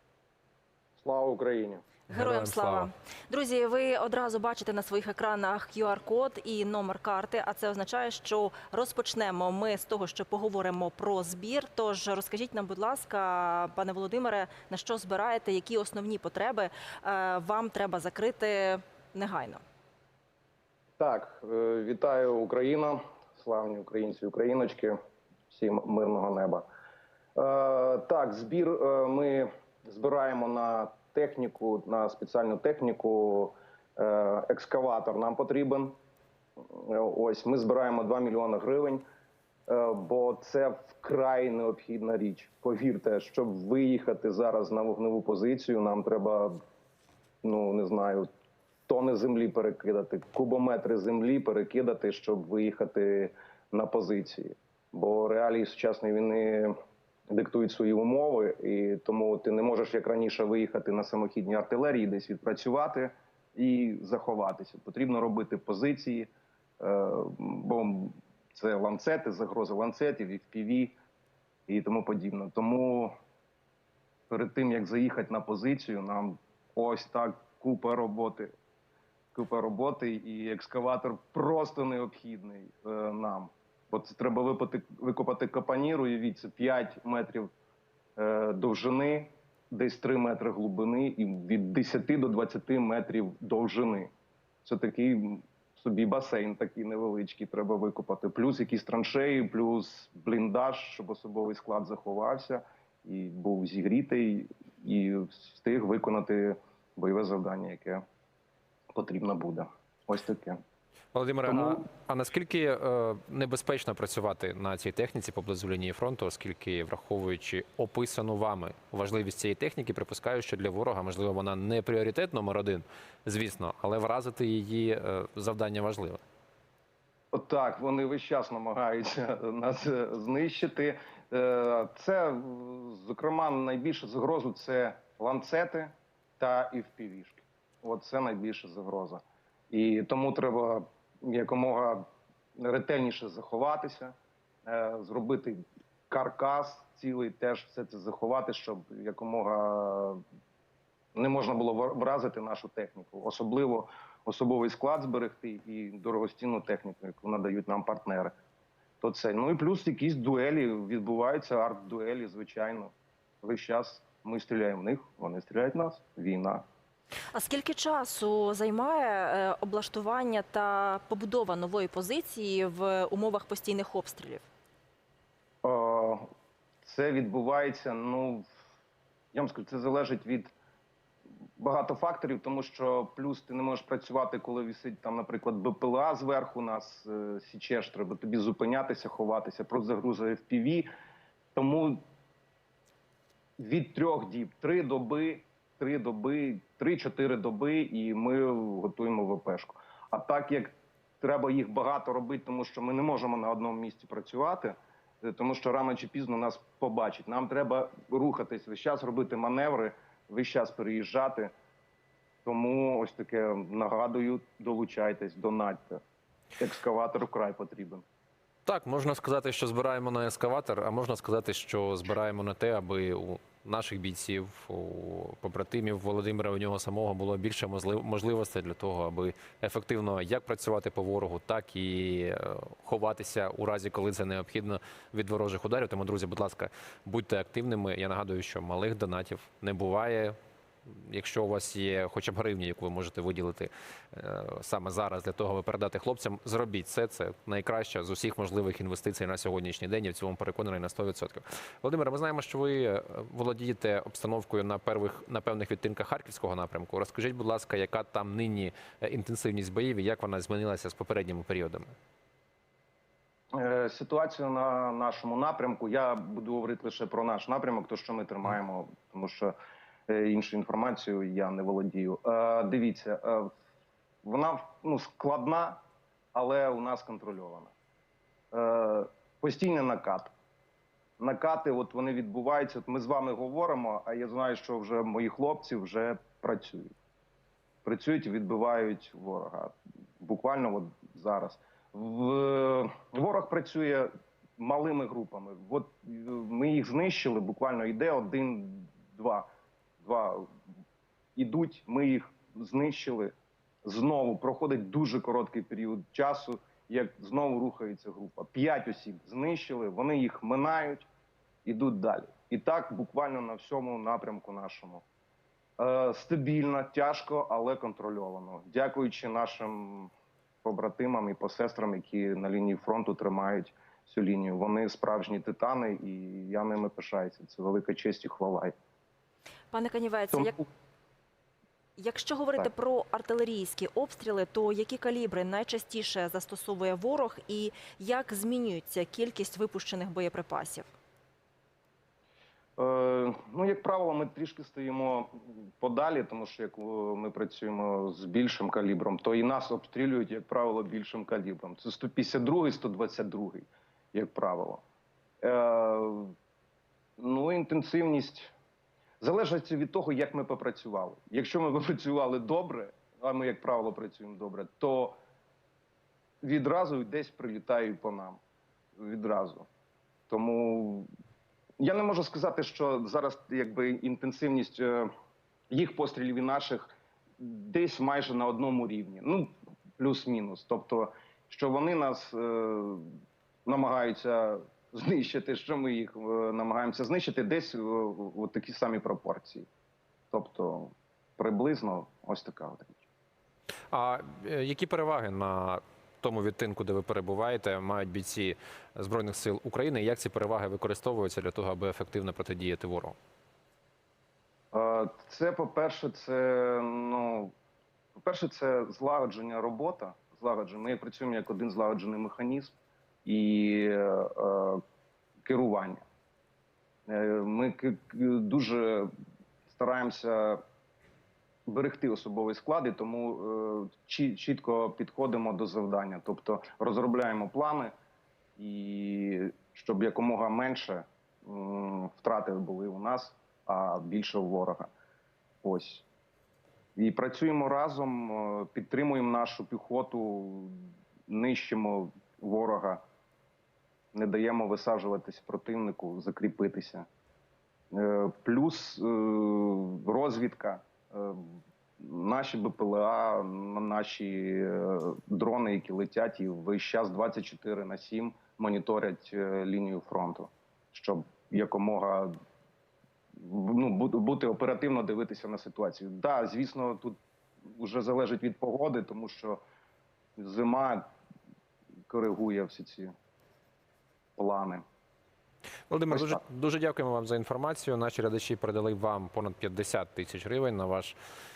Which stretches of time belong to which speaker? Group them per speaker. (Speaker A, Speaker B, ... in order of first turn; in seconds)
Speaker A: 1.0-1.8, 21.0-25.0, 25.5-26.6, 27.4-36.0, 36.6-39.0, 39.7-46.6, 47.4-48.3, 48.9-56.7, 57.3-71.0, 71.7-73.1, 74.3-78.5, 79.3-87.5, 88.2-94.1, 94.6-108.0, 108.9-110.6, 111.5-111.8, 127.3-142.1, 142.6-144.1, 144.7-150.2, 151.2-158.3, 159.0-166.6, 175.6-176.3, 176.8-178.5, 179.3-180.5, 181.6-190.9, 191.6-192.0, 193.6-211.5, 212.4-216.0, 216.6-218.0, 263.5-269.5, 270.1-273.5, 274.2-275.8, 276.3-277.7, 278.5-280.3, 281.2-286.9, 287.9-299.5, 300.0-300.5, 301.4-311.1, 311.6-315.1, 315.8-320.1, 320.6-328.7, 330.3-330.6, 342.8-354.8, 355.4-356.3, 357.2-358.5, 359.2-365.2, 366.4-368.4, 369.0-369.7, 370.3-371.1, 371.8-375.1, 375.7-383.1, 383.7-389.7, 390.3-393.1, 404.7-407.5, 408.1-414.8, 415.4-416.1, 417.1-419.1, 419.7-420.6, 421.7-427.9, 428.6-434.9, 435.6-436.1, 437.0-443.0, 444.1-447.1, 447.9-462.4, 463.4-467.2, 467.7-469.6, 470.4-471.1, 472.1-473.1, 474.4-474.8, 476.1-476.4
Speaker B: 2.1-19.6, 167.3-174.5, 329.7-330.6, 332.0-340.9
Speaker C: 2.1-2.9, 111.1-126.2, 218.7-240.3, 240.9-261.9, 393.9-403.1, 475.9-481.2